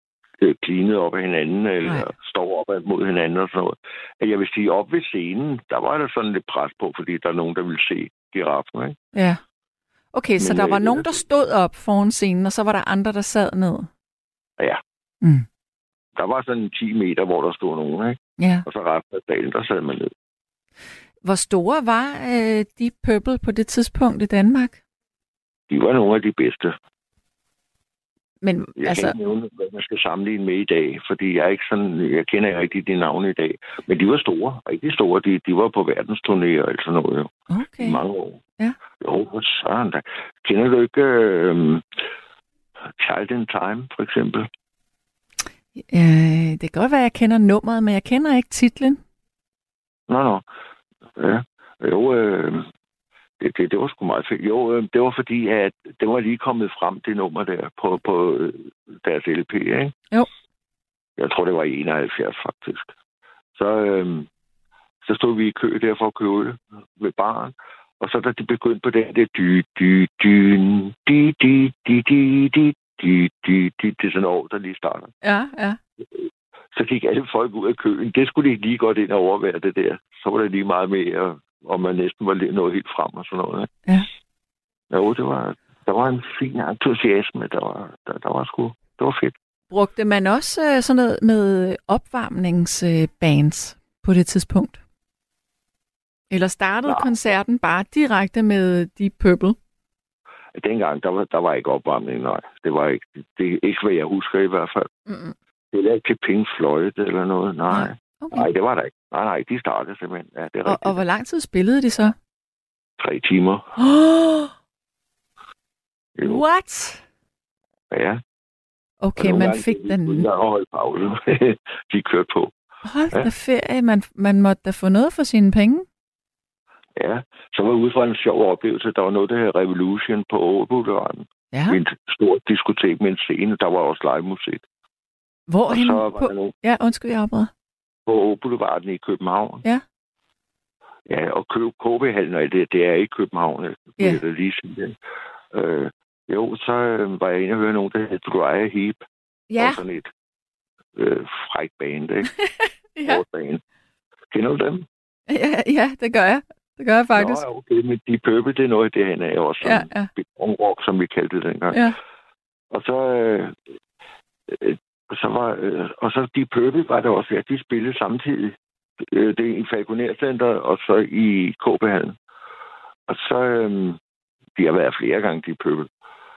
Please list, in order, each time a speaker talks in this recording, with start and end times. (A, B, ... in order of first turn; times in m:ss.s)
0:00.4-0:09.0 A
0:09.1-0:09.4 B
0:10.1-0:13.9 B
0:10.4-0:11.1 A
0:16.2-0:20.1 A
0:18.4-0:18.6 B
0:21.2-0:24.8 B
0:25.7-0:26.8 A
0:28.4-0:29.1 B
0:28.8-0:38.4 A
0:37.5-0:38.0 B
0:39.0-0:41.8 A
0:43.0-0:44.5 A
0:45.9-0:49.0 B
0:50.1-0:50.4 A
0:51.2-0:52.7 A
0:53.4-0:59.9 A
1:01.2-1:02.9 A
1:03.6-1:04.3 A
1:05.0-1:15.1 A
1:15.2-1:15.8 B
1:16.1-1:23.7 A
1:24.9-1:29.3 A
1:29.7-1:34.8 B
1:36.3-1:39.6 B
1:36.8-1:37.1 A
1:40.6-1:44.9 A
1:45.1-1:45.3 B
1:45.7-1:51.0 A
1:47.7-1:48.5 B
1:50.6-1:52.1 B
1:53.0-1:53.7 A
1:53.8-1:54.5 B
1:56.2-1:56.4 A
1:56.2-1:57.0 B
1:57.9-1:58.2 A
1:59.0-2:00.3 B
1:59.2-2:02.5 A
2:02.8-2:05.8 B
2:07.0-2:14.6 A
2:11.5-2:11.8 B
2:15.5-2:17.5 B
2:15.7-2:16.5 A
2:18.0-2:19.6 A
2:21.1-2:25.0 A
2:25.5-2:29.0 A
2:29.5-2:29.8 B
2:29.6-2:30.1 A
2:31.0-2:32.3 A
2:33.0-2:33.2 B
2:33.0-2:33.6 A
2:34.3-2:34.9 A
2:35.3-2:37.4 B
2:37.1-2:41.8 A
2:39.6-2:40.1 B
2:41.7-2:42.0 B
2:42.7-2:43.6 A
2:44.5-2:52.1 A
2:53.1-2:54.0 A
2:54.6-2:55.9 A